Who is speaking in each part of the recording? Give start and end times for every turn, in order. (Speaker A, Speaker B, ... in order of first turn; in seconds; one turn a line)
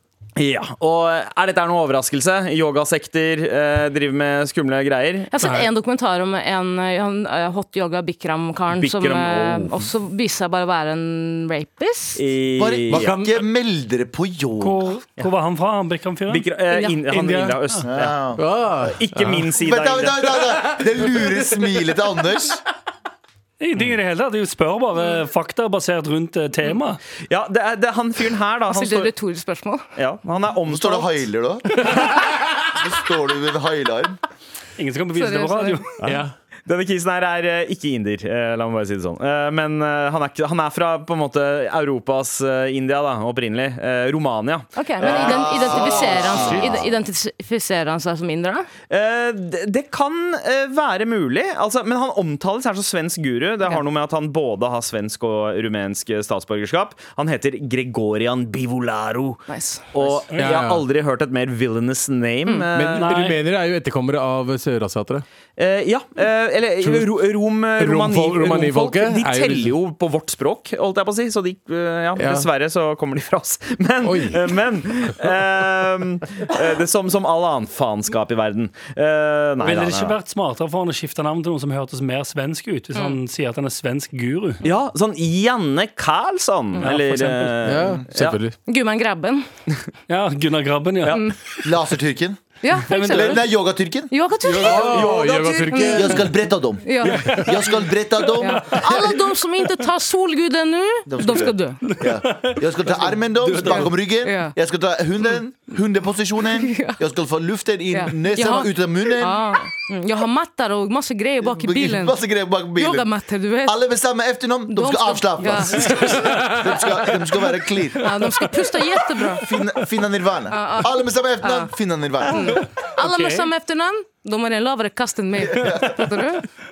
Speaker A: 0.3-5.3
Speaker B: 5.3-12.2
Speaker C: 5.4-5.7
Speaker A: 8.8-9.8
Speaker A: 12.2-13.1
Speaker D: 12.6-14.8
Speaker C: 12.9-13.4
Speaker E: 14.6-16.4
Speaker A: 16.3-18.2
Speaker C: 17.1-17.6
Speaker D: 17.9-18.4
Speaker C: 18.4-19.5
Speaker A: 18.8-20.5
Speaker D: 19.6-22.6
Speaker C: 20.5-21.4
Speaker E: 23.6-27.0
Speaker A: 27.3-29.1
Speaker B: 28.7-29.8
Speaker A: 29.9-31.2
Speaker D: 30.7-32.0
Speaker D: 32.7-34.2
Speaker E: 34.8-35.9
Speaker B: 35.1-35.8
Speaker A: 36.0-45.8
Speaker C: 36.0-36.3
Speaker B: 44.8-48.7
Speaker D: 45.0-46.8
Speaker C: 46.3-46.9
Speaker A: 48.9-59.4
Speaker B: 59.5-60.2
Speaker A: 59.9-63.3
Speaker E: 60.3-60.6
Speaker C: 60.4-60.8
Speaker C: 62.7-65.2
Speaker E: 63.0-63.4
Speaker A: 65.6-80.2
Speaker C: 66.8-67.1
Speaker C: 67.8-69.7
Speaker C: 72.2-72.5
Speaker C: 74.0-74.5
Speaker E: 79.6-84.6
Speaker A: 84.6-88.4
Speaker E: 86.8-87.5
Speaker C: 87.6-88.5
Speaker B: 88.7-89.4
Speaker E: 90.1-91.2
Speaker D: 91.6-94.1
Speaker B: 92.6-93.4
Speaker E: 92.9-93.4
Speaker B: 94.1-95.1
Speaker E: 94.4-94.8
Speaker C: 94.6-96.2
Speaker A: 94.6-95.9
Speaker B: 95.7-96.2
Speaker D: 95.9-99.0
Speaker B: 96.8-97.3
Speaker E: 97.1-97.8
Speaker B: 98.4-101.8
Speaker E: 98.4-98.9
Speaker D: 101.1-109.4
Speaker E: 101.8-103.9
Speaker B: 103.7-104.5
Speaker B: 106.6-107.0
Speaker B: 107.9-112.2
Speaker D: 111.4-113.1
Speaker B: 112.7-113.8
Speaker D: 113.6-118.1
Speaker B: 114.7-116.2
Speaker E: 115.5-116.0
Speaker C: 116.1-116.8
Speaker B: 118.0-119.5
Speaker D: 119.4-122.6
Speaker B: 120.5-121.7
Speaker B: 122.3-126.4
Speaker E: 123.0-123.5
Speaker D: 125.5-125.9